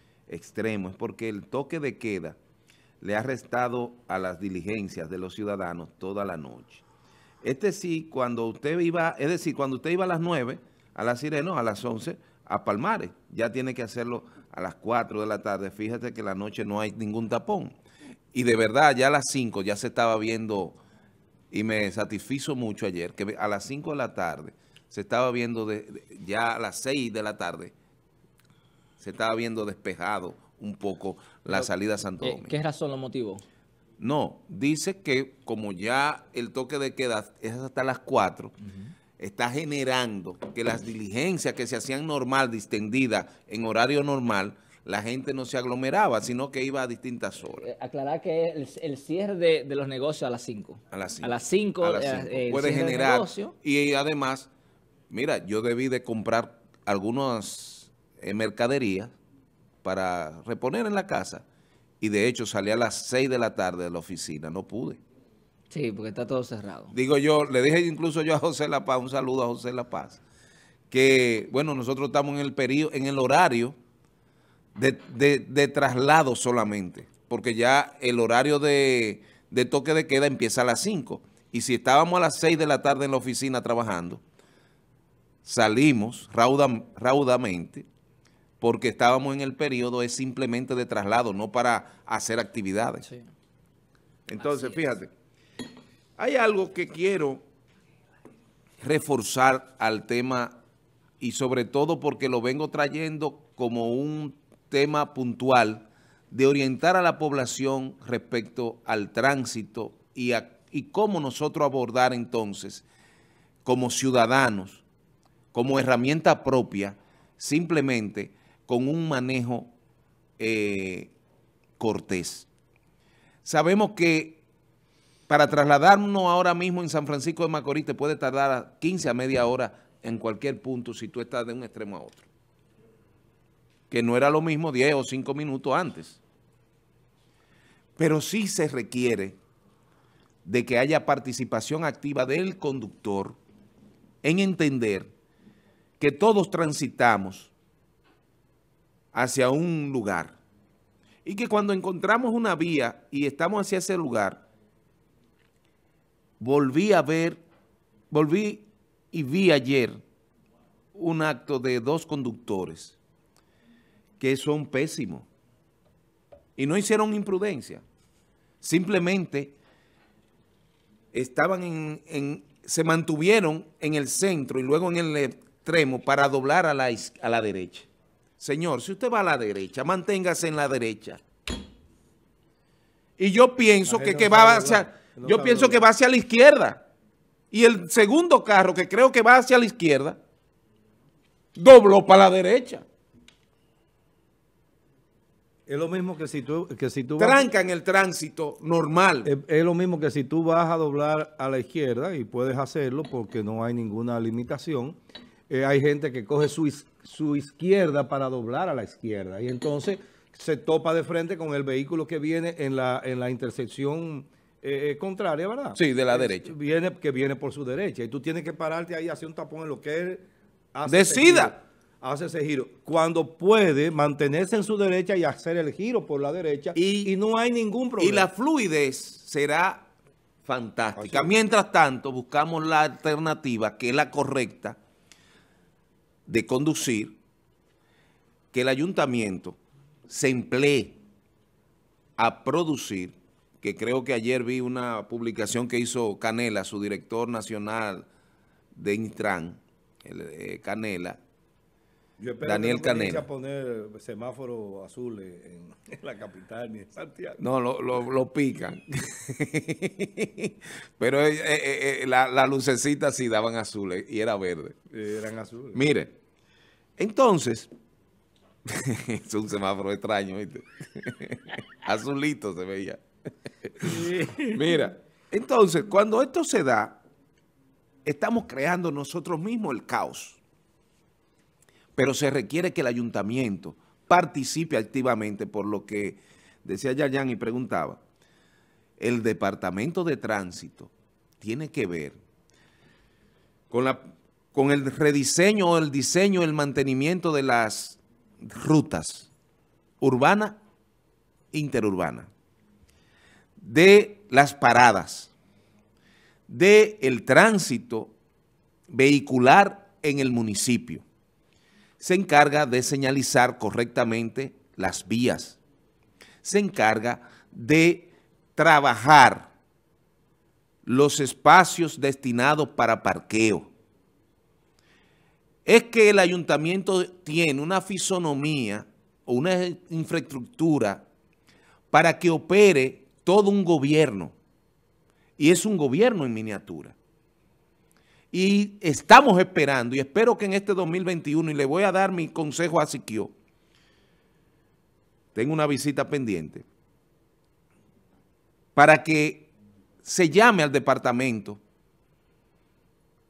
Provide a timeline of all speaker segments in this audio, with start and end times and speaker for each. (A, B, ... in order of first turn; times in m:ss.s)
0:00.3-0:02.4 A
0:03.0-0:06.8 A
0:07.4-0:17.8 A
0:18.3-0:20.8 A
0:21.5-0:27.7 A
0:29.0-0:32.5 A
0:32.2-0:33.4 B
0:34.0-0:38.5 A
0:39.2-0:47.7 A
0:47.6-0:53.5 B
0:50.9-0:54.5 A
0:55.1-0:59.1 A
0:59.8-1:01.4 A
1:02.0-1:05.0 A
1:05.7-1:06.9 B
1:06.9-1:10.2 A
1:10.9-1:13.8 A
1:14.8-1:24.2 A
1:25.4-1:27.8 A
1:28.6-1:33.1 A
1:34.3-1:35.1 A
1:36.2-1:37.4 A
1:38.8-1:40.6 A
1:41.2-1:52.8 A
1:53.6-1:54.8 A
1:55.5-1:59.7 A
2:00.4-2:01.1 A
2:01.8-2:02.5 A
2:03.4-2:04.4 A
2:05.3-2:12.2 A
2:13.9-2:16.2 A
2:18.0-2:19.4 A
2:20.4-2:23.4 A
2:24.2-2:25.1 A
2:26.0-2:27.5 A
2:29.1-2:30.4 A
2:31.2-2:34.4 A
2:36.4-2:37.4 A
2:38.1-2:40.0 A
2:40.9-2:43.0 A
2:44.2-2:45.3 A
2:46.6-2:47.8 A
2:48.6-2:49.6 A
2:51.1-2:57.9 A
2:58.4-3:01.2 A
3:03.2-3:06.8 A
3:03.8-3:05.8 C
3:07.5-3:10.2 A
3:11.6-3:12.8 A
3:15.7-3:17.5 C
3:17.2-3:19.3 A
3:19.2-3:25.0 C
3:25.5-3:48.3 C
3:35.7-3:36.5 A
3:40.8-3:41.5 A
3:46.7-3:47.1 A
3:48.0-3:49.9 A
3:50.4-3:54.8 A
3:51.0-3:51.3 C
3:56.3-3:57.2 A
3:58.5-4:01.0 A
4:02.2-4:08.1 A
4:08.7-4:11.2 A
4:12.2-4:17.4 C
4:12.4-4:13.2 A
4:17.4-4:24.8 A
4:24.9-4:25.8 C
4:25.7-4:26.1 A
4:27.0-4:27.7 A
4:28.7-4:33.0 A
4:33.8-4:34.6 C
4:34.5-4:37.0 A
4:38.0-4:40.4 A
4:42.0-4:48.0 A
4:49.0-4:52.2 A
4:53.7-4:54.0 A
4:54.5-4:59.3 A
5:00.0-5:00.6 A
5:01.5-5:02.3 A
5:03.6-5:05.3 A
5:06.5-5:08.1 A
5:08.9-5:11.0 A
5:12.0-5:15.6 A
5:16.4-5:19.5 A
5:20.8-5:23.7 A
5:25.6-5:31.0 A
5:31.9-5:34.3 A
5:35.4-5:37.0 A
5:38.3-5:43.3 A
5:45.3-5:46.6 A
5:48.8-5:49.5 A
5:50.0-5:51.6 A